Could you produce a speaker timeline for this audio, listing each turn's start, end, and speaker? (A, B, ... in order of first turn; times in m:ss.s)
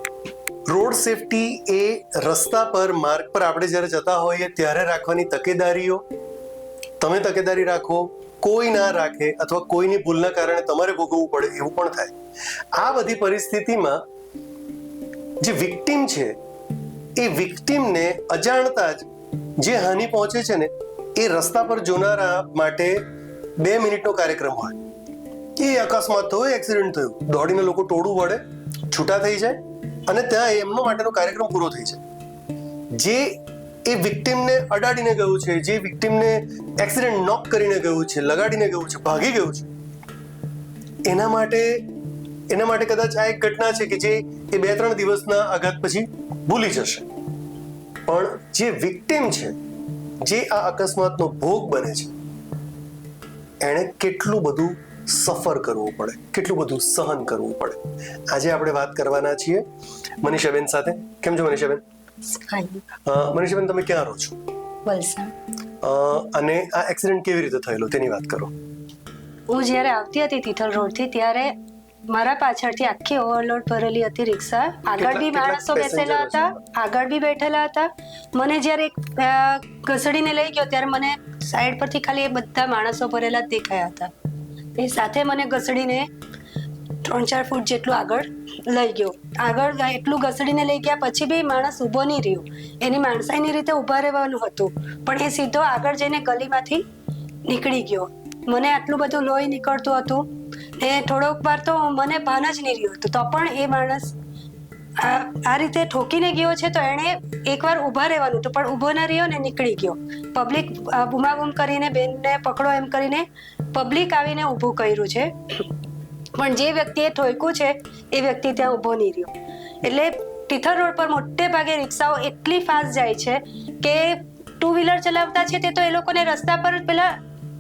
0:00.7-0:06.0 A
0:07.0-0:12.2 A
0:12.8-0:14.0 A
0:15.4-0:16.4 A
0:17.2-0:19.1 A
0:19.6-0:23.0 A
0:23.6-0:24.8 A
0:25.6-0:32.0 A
0:33.0-0:33.3 A
0:33.9-0:39.7 A
0:41.1-0:41.8 A
0:42.5-0:47.1 A
0:48.1-0:49.6 A
0:50.2-0:52.1 A
0:53.6-0:59.6 A
1:00.2-1:01.8 A
1:02.4-1:02.8 B
1:03.0-1:04.4 A
1:04.9-1:05.3 B
1:05.8-1:08.5 A
1:09.5-1:11.5 B
1:12.1-1:24.1 B
1:15.0-1:16.6 A
1:24.8-1:26.1 B
1:27.0-1:36.8 B
1:37.5-1:44.2 B
1:45.0-1:55.7 B
1:56.4-2:07.1 B